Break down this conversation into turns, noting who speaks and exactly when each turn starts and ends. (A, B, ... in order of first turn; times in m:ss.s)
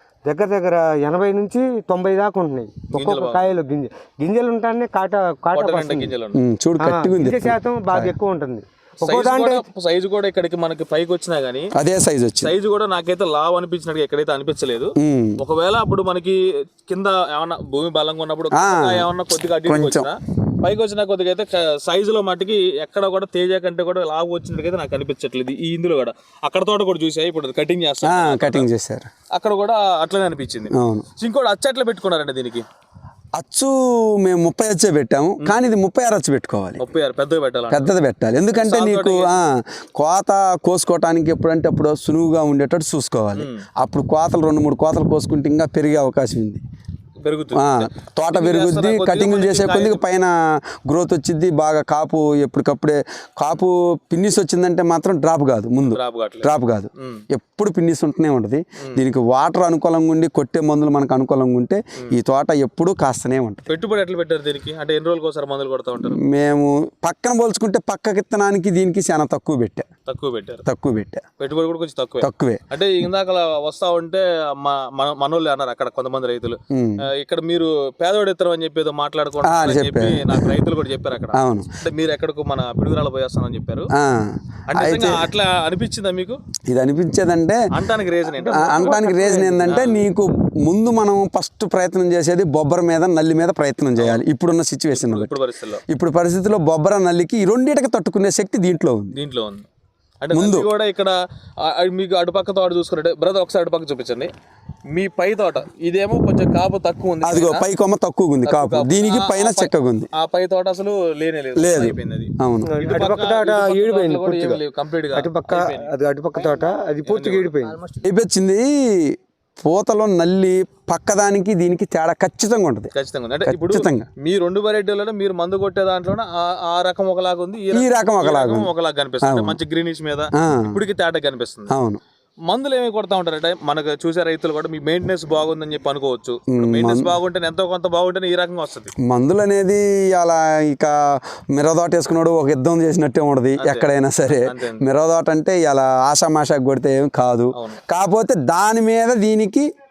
0:00.3-0:06.1 A
0:02.9-0:03.5 B
0:05.5-0:06.4 B
0:06.3-0:08.1 C
0:06.8-0:09.7 A
0:09.0-0:11.7 B
0:11.8-0:12.5 C
0:12.4-0:28.7 B
0:15.0-0:15.4 C
0:18.5-0:20.1 C
0:28.0-0:29.1 C
0:29.3-0:32.6 B
0:30.7-0:31.0 C
0:33.4-0:36.8 C
0:36.8-0:37.9 B
0:37.7-0:46.6 C
0:38.6-0:39.5 B
0:43.4-0:43.7 B
0:47.2-0:50.0 B
0:47.6-1:03.7 C
0:55.9-0:57.2 B
1:03.7-1:06.2 B
1:06.0-1:09.9 C
1:10.1-1:10.6 B
1:10.6-1:11.2 C
1:11.4-1:23.9 B
1:12.2-1:12.6 C
1:16.7-1:17.0 C
1:19.4-1:20.6 C
1:21.3-1:21.7 C
1:24.0-1:25.3 C
1:24.7-1:26.4 B
1:26.7-1:27.6 C
1:27.7-1:29.0 B
1:28.3-1:29.8 A
1:28.5-1:35.3 C
1:29.6-1:30.0 B
1:34.0-1:34.2 B
1:34.9-1:35.8 B
1:35.9-1:39.2 C
1:39.1-1:39.7 B
1:40.2-1:44.3 B
1:40.3-1:40.7 C
1:44.9-1:47.7 B
1:47.2-1:50.1 C
1:48.4-1:55.9 B
1:51.6-1:52.7 C
1:52.7-1:54.6 A
1:55.1-1:57.8 A
1:57.1-1:57.6 B
1:58.0-2:02.9 C
2:02.9-2:11.7 B
2:03.4-2:04.1 C
2:07.7-2:09.6 C
2:10.4-2:10.8 C
2:11.7-2:12.0 C
2:12.5-2:18.9 B
2:16.5-2:17.1 C
2:19.0-2:29.7 C
2:23.6-2:23.9 B
2:24.4-2:24.9 B
2:27.6-2:27.8 B